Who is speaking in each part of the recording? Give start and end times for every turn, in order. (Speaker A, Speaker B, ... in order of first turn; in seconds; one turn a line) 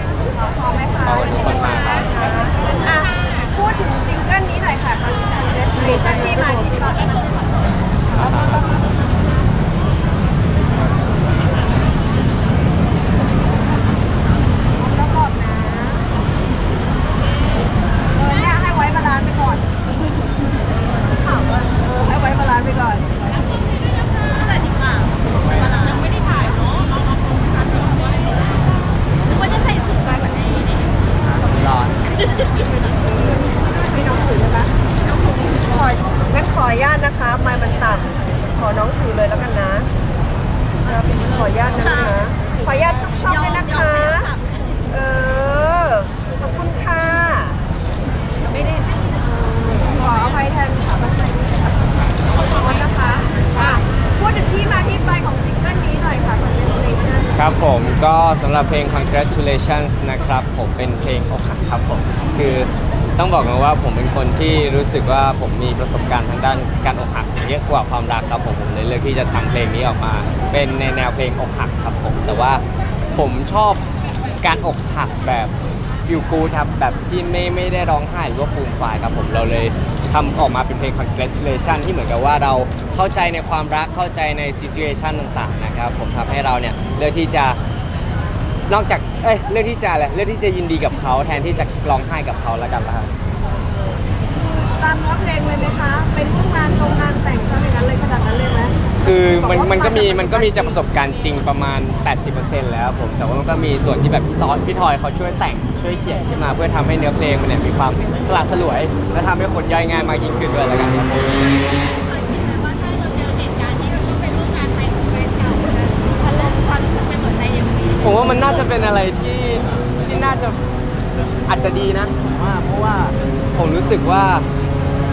Speaker A: 0.3-6.9
Speaker B: 1.0-2.1
Speaker C: 5.8-7.1
Speaker B: 8.1-8.6
Speaker A: 14.8-16.2
Speaker A: 18.1-19.7
Speaker C: 21.1-21.7
Speaker A: 21.8-23.1
Speaker C: 24.2-28.3
Speaker C: 29.2-31.0
Speaker B: 31.4-32.0
Speaker C: 32.0-32.7
Speaker A: 33.0-34.7
Speaker C: 35.0-35.6
Speaker A: 35.6-39.9
Speaker A: 40.9-44.3
Speaker C: 41.7-42.2
Speaker C: 43.1-44.8
Speaker A: 44.9-47.6
Speaker C: 48.5-48.8
Speaker A: 49.2-57.5
Speaker B: 57.4-72.6
Speaker B: 73.1-73.8
Speaker B: 74.4-75.5
Speaker B: 76.1-87.6
Speaker B: 88.7-93.1
Speaker A: 93.5-100.8
Speaker B: 99.0-111.3
Speaker C: 111.9-118.4
Speaker B: 118.0-120.6
Speaker B: 121.5-124.5